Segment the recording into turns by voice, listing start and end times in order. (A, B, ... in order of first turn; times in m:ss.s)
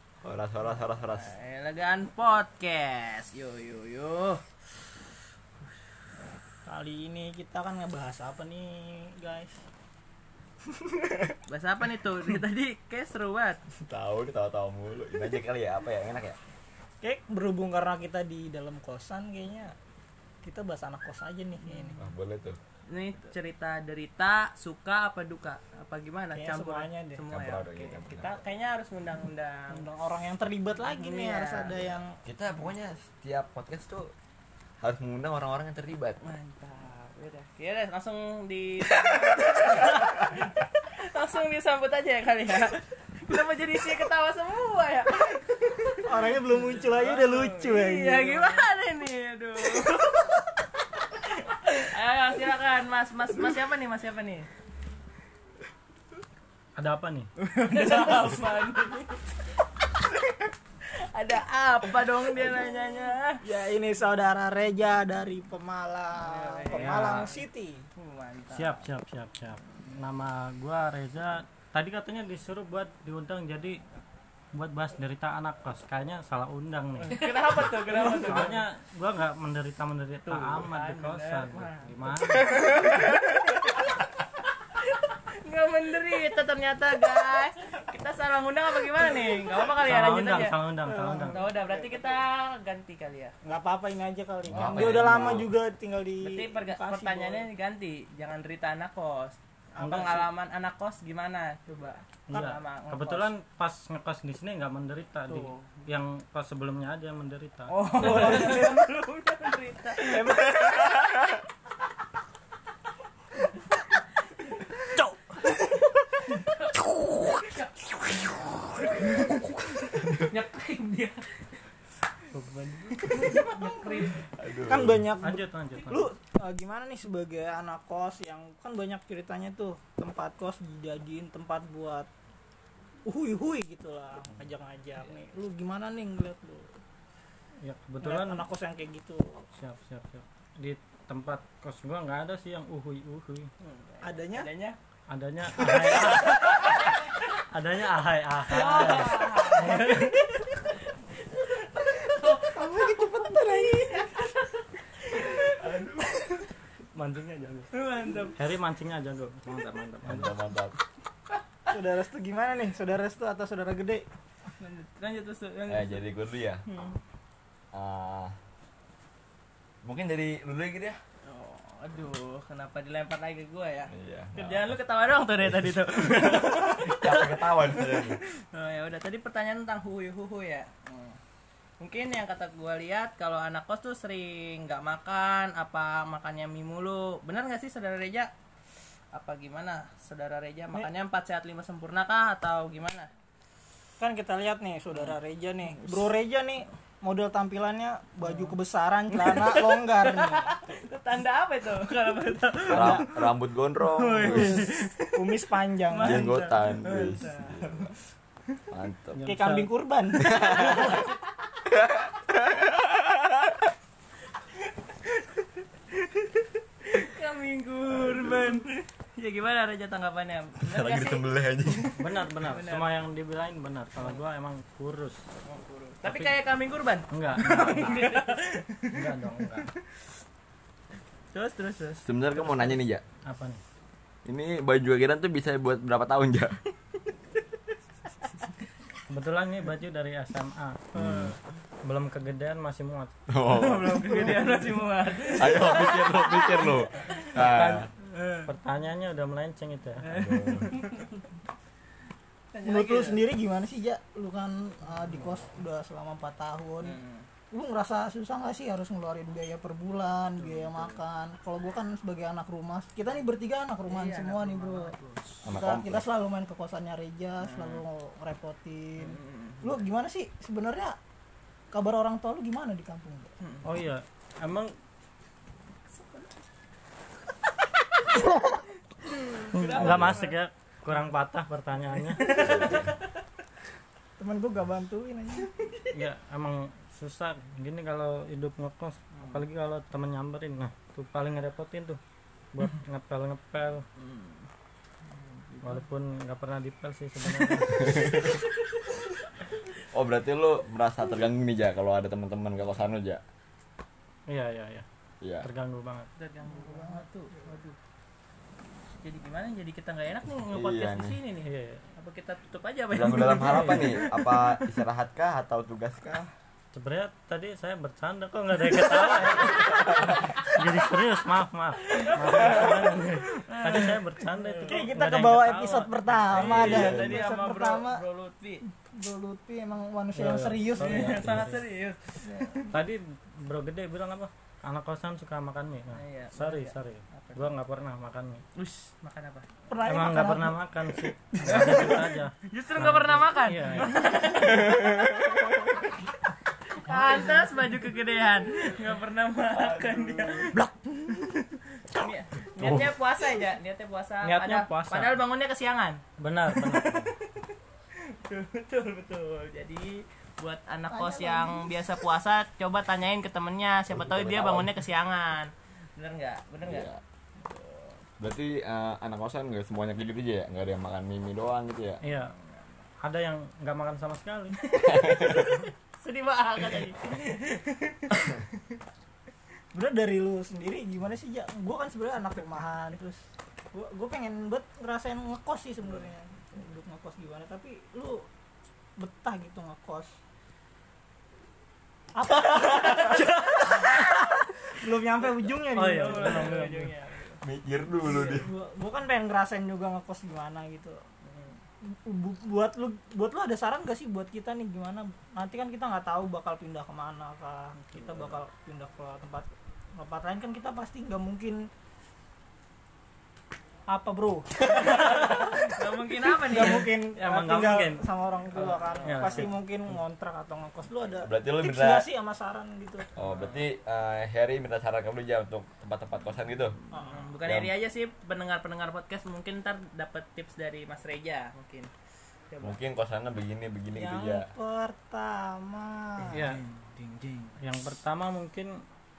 0:00.2-0:01.3 A
0:00.7-0:04.4 B
0:06.7-0:09.6 C
0:11.5-0:13.6 B
0:13.7-0:16.4 A
0:17.0-0:19.7 C
0:20.4-0:22.0 C
0:21.6-0:22.0 B
0:22.0-0:22.6 A
0:22.9-0:29.9 B
0:26.3-0:27.2 C
0:27.3-0:28.4 A
0:29.7-0:32.2 C
0:30.8-0:32.0 B
0:32.2-0:34.1 A
0:34.8-0:36.2 A
0:36.2-0:50.5 B
0:46.0-0:48.6 C
0:51.3-0:54.5 B
0:56.8-0:57.3 D
0:57.4-0:59.2 B
1:00.9-1:03.4 B
1:03.4-1:07.8 C
1:06.2-1:07.4 B
1:06.7-1:07.3 D
1:08.0-1:08.9 B
1:08.5-1:13.8 D
1:14.5-1:22.6 D
1:17.0-1:18.6 B
1:20.2-1:24.1 B
1:24.8-1:30.6 B
1:29.8-1:31.5 D
1:29.9-1:32.2 C
1:31.3-1:33.3 B
1:33.4-1:37.5 C
1:34.5-1:35.5 A
1:36.2-1:43.3 B
1:39.8-1:40.2 C
1:39.8-1:40.3 D
1:42.3-1:48.4 D
1:45.3-1:45.8 B
1:47.7-1:50.6 B
1:47.8-1:48.8 C
1:50.0-1:51.2 C
1:55.0-1:55.9 C
1:56.5-2:01.4 B
2:02.3-2:03.3 D
2:02.9-2:04.1 C
2:03.0-2:04.3 B
2:04.4-2:05.0 A
2:04.6-2:12.1 C
2:05.2-2:06.1 D
2:13.0-2:16.8 C
2:17.6-2:18.4 D
2:18.0-2:19.4 C
2:19.5-2:23.5 D
2:23.6-2:24.8 B
2:24.0-2:24.5 C
2:25.1-2:26.7 D
2:26.1-2:27.0 B
2:27.5-2:30.1 D
2:28.5-2:30.2 B
2:31.3-2:32.6 B
2:32.1-2:34.2 C
2:33.9-2:36.5 B
2:36.9-2:37.7 D
2:37.7-2:38.4 B
2:38.3-2:40.4 D
2:40.0-2:40.8 A
2:41.7-2:44.1 C
2:44.6-2:46.0 B
2:45.7-2:46.6 A
2:46.7-2:47.0 B
2:47.7-2:48.4 A
2:49.8-2:51.0 A
2:51.3-3:01.2 B
2:53.9-2:54.8 A
2:56.3-2:58.2 A
3:01.8-3:08.3 B
3:09.1-3:13.1 B
3:14.0-3:20.6 C
3:18.2-3:18.6 B
3:19.1-3:27.9 B
3:22.7-3:24.6 A
3:22.7-3:23.1 C
3:24.2-3:26.4 C
3:26.0-3:27.9 A
3:28.7-3:29.3 A
3:29.2-3:29.7 D
3:29.2-3:30.9 C
3:30.2-3:31.0 A
3:30.4-3:31.2 B
3:31.7-3:32.9 A
3:35.1-3:43.0 B
3:40.6-3:41.9 A
3:42.0-3:45.3 D
3:45.4-3:49.1 B
3:46.0-3:46.4 D
3:47.1-3:48.2 D
3:48.9-3:49.7 D
3:51.3-3:52.1 B
3:52.0-3:53.0 A
3:52.4-3:53.6 D
3:54.2-3:56.6 A
3:59.1-4:03.1 D
4:01.0-4:01.4 A
4:03.3-4:04.4 A
4:03.5-4:08.5 B
4:05.3-4:07.9 A
4:07.3-4:07.9 D
4:08.4-4:10.0 D
4:10.0-4:11.2 B
4:10.1-4:10.7 A
4:12.5-4:13.2 B
4:12.6-4:17.0 C
4:16.8-4:17.3 B
4:17.5-4:24.9 C
4:20.4-4:21.0 B
4:23.9-4:25.4 B
4:25.4-4:26.1 A
4:25.4-4:31.0 C
4:27.4-4:27.8 B
4:29.0-4:29.8 B
4:31.7-4:33.3 C
4:33.4-4:33.7 B
4:33.6-4:34.7 D
4:35.9-4:36.4 B
4:39.0-4:40.4 B
4:39.5-4:42.7 D
4:39.8-4:40.2 A
4:42.0-4:43.0 B
4:42.4-4:42.9 A
4:44.2-4:45.5 C
4:45.9-4:52.0 D
4:52.5-4:53.8 D
4:54.0-4:54.4 B
4:55.1-4:55.8 B
4:55.6-4:58.0 D
4:57.8-4:58.5 A
4:59.9-5:03.2 A
5:04.3-5:04.9 D
5:05.2-5:05.5 A
5:05.4-5:06.1 D
5:06.2-5:07.8 B
5:06.5-5:07.5 C
5:09.0-5:14.2 B
5:10.5-5:11.2 A
5:11.4-5:11.8 D
5:12.9-5:16.3 A
5:13.0-5:14.0 D
5:16.7-5:26.9 D
5:21.9-5:24.8 B
5:24.6-5:28.0 C
5:26.3-5:28.6 B
5:26.4-5:27.2 A
5:28.8-5:31.5 C
5:30.1-5:31.6 D
5:30.8-5:32.8 B
5:32.7-5:38.4 D
5:35.9-5:37.5 B
5:38.6-5:39.5 B
5:39.7-5:42.0 C
5:39.8-5:44.0 D
5:41.5-5:45.3 B
5:41.5-5:41.8 A
5:44.6-5:45.4 A
5:46.8-5:50.7 B
5:46.9-5:47.6 C
5:49.5-5:50.5 A
5:50.6-5:51.4 C
5:51.3-5:57.5 B
5:52.6-5:52.9 D
5:54.2-5:55.2 D
5:56.2-5:57.2 D
5:58.1-6:08.0 B
6:00.9-6:01.8 C
6:03.9-6:04.8 A
6:06.6-6:07.0 A
6:08.2-6:12.0 A
6:12.0-6:12.3 D
6:13.0-6:14.6 D
6:14.7-6:18.3 B
6:14.8-6:15.6 A
6:19.7-6:23.2 C
6:23.7-6:28.3 C
6:29.0-6:30.1 C
6:32.2-6:36.6 C
6:32.5-6:34.4 B
6:35.7-6:36.9 D
6:35.9-6:37.4 B
6:37.4-6:38.5 A
6:38.0-6:41.0 C
6:38.1-6:38.4 B
6:41.3-6:41.6 B
6:41.8-6:51.7 C
6:47.8-6:48.4 B
6:53.9-6:55.7 C
6:54.7-6:56.9 B
6:56.2-7:03.1 C
6:56.7-6:58.1 D
6:58.5-6:59.5 B
6:59.0-6:59.5 D
7:01.2-7:02.1 A
7:03.1-7:06.8 A
7:03.2-7:03.6 B
7:06.9-7:07.3 C
7:06.9-7:11.9 B
7:07.4-7:07.7 A
7:12.5-7:12.8 B
7:12.6-7:14.5 A
7:13.9-7:16.4 C
7:16.2-7:17.6 B
7:16.3-7:16.6 D
7:17.6-7:18.7 D